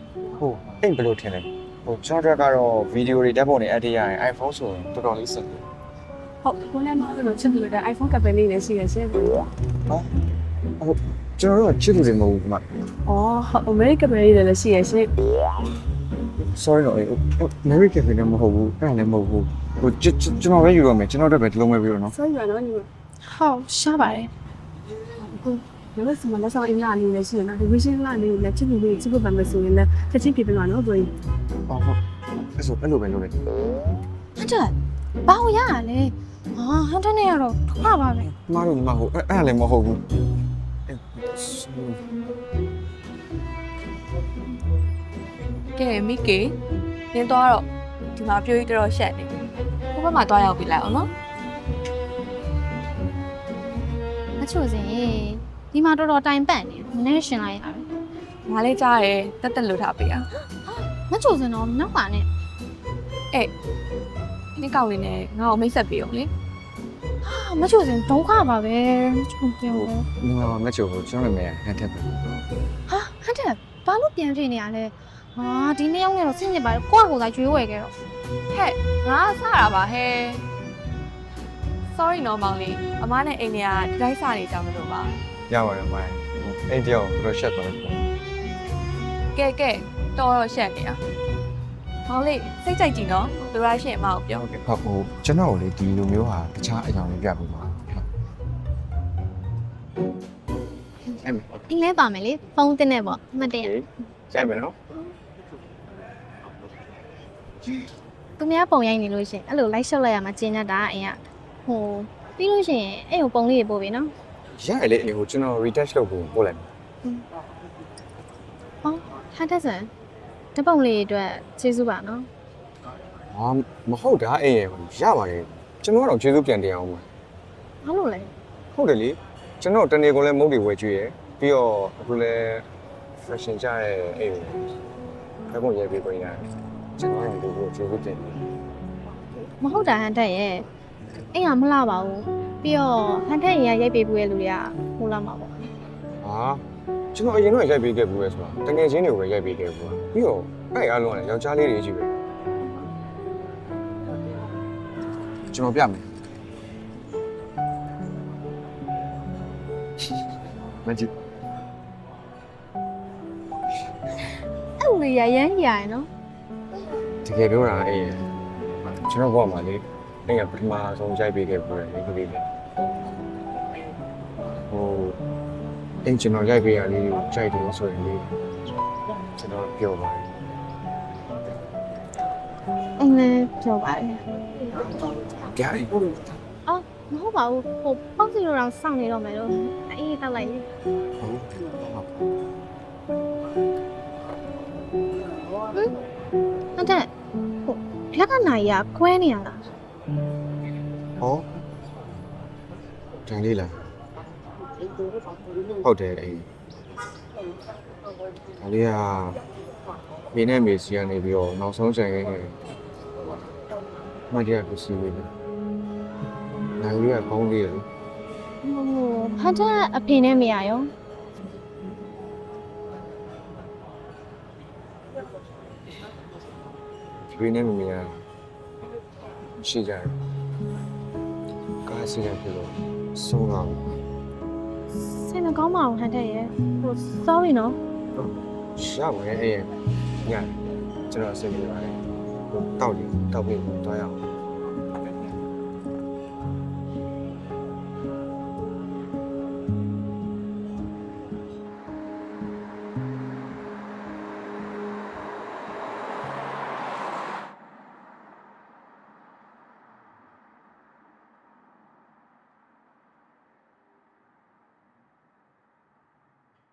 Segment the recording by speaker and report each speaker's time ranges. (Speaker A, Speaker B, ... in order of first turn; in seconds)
Speaker A: 0.3-5.6, 10.8-12.6, 16.5-22.1, 31.7-32.0, 32.5-33.4, 38.3-40.0, 40.9-42.0, 69.7-72.4, 85.5-88.1, 94.3-98.1, 101.2-101.6, 103.6-104.8, 114.5-116.7, 123.3-127.1, 128.7-132.7, 133.2-134.7, 135.5-138.4, 146.2-146.6, 147.1-152.1, 155.5-156.1, 160.8-161.1, 167.2-168.2, 168.8-172.5, 174.7-175.2, 176.0-178.3, 179.3-180.3, 185.4-186.2, 191.2-192.1, 201.2-201.4, 203.2-203.7, 205.8-206.5, 208.6-209.4, 210.3-212.6, 214.3-215.3, 216.8-217.9, 227.3-228.2, 229.6-230.2, 231.8-233.8, 238.2-239.7, 240.2-240.6, 241.1-244.2
Speaker B: 6.4-9.5, 13.1-15.1, 22.1-22.9, 25.2-31.1
Speaker C: 23.2-24.3, 34.4-34.7, 35.2-38.3, 54.4-57.9, 60.7-62.3, 67.2-70.0, 72.9-77.9, 101.7-103.7, 108.4-114.1, 118.8-119.9, 120.5-122.3, 127.8-128.3, 139.6-140.7, 141.3-145.7, 164.8-166.1, 183.0-184.2, 186.7-190.7, 196.8-197.1, 197.6-199.6, 218.6-220.9, 234.9-237.8
Speaker D: 45.7-46.5, 47.1-49.3, 49.9-51.1, 58.5-60.2, 64.5-66.3, 78.5-80.4, 81.9-85.1, 89.3-91.0, 92.1-94.4